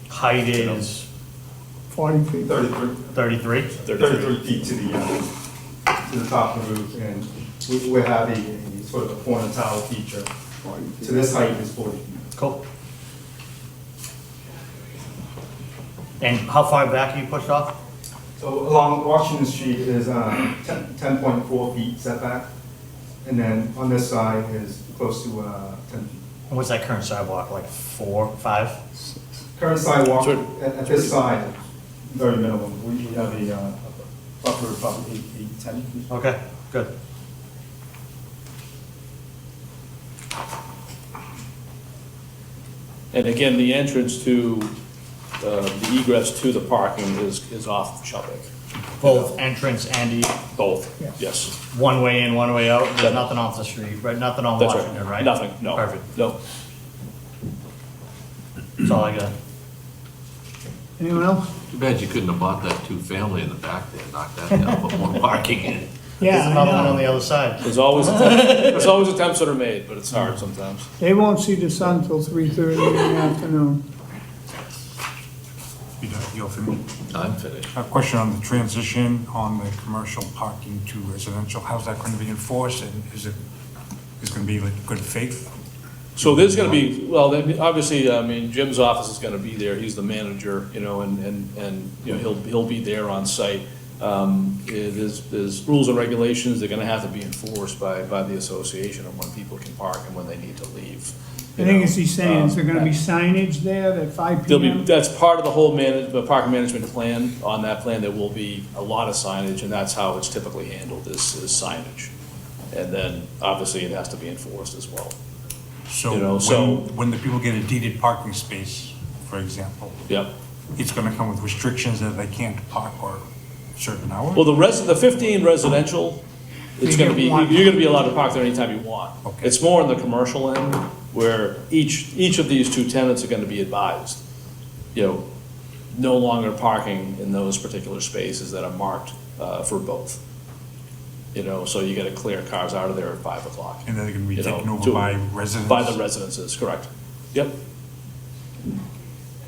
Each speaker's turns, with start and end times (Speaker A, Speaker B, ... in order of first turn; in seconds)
Speaker A: 0.1-1.1, 3.1-3.7, 12.3-12.6, 16.2-17.7, 26.5-28.8, 36.1-36.9, 49.0-50.4, 51.6-56.0, 58.8-59.3, 66.2-68.9
Speaker B: 0.6-0.8, 3.8-4.3, 30.2-30.4, 43.1-44.7, 45.4-48.5, 49.0-49.3, 50.5-51.5, 54.6-56.4, 67.6-70.9, 86.2-102.9, 104.5-112.1, 112.7-115.2, 116.1-116.8, 124.3-126.2, 126.8-134.2, 134.9-135.2, 135.9-140.2, 141.3-145.1, 145.7-147.6
Speaker C: 1.9-2.5, 61.0-61.5, 66.2-67.0, 71.0-73.8, 101.6-104.9, 126.8-127.7
Speaker D: 2.4-3.0, 3.9-5.2, 6.0-10.3, 10.9-12.2, 18.4-22.5, 23.2-26.2, 29.6-36.1
Speaker E: 61.7-65.9, 77.1-77.7
Speaker F: 76.0-76.8, 77.7-83.3, 84.2-85.5, 86.2-86.8, 115.9-120.0, 120.7-124.5, 129.2-129.5, 143.8-146.0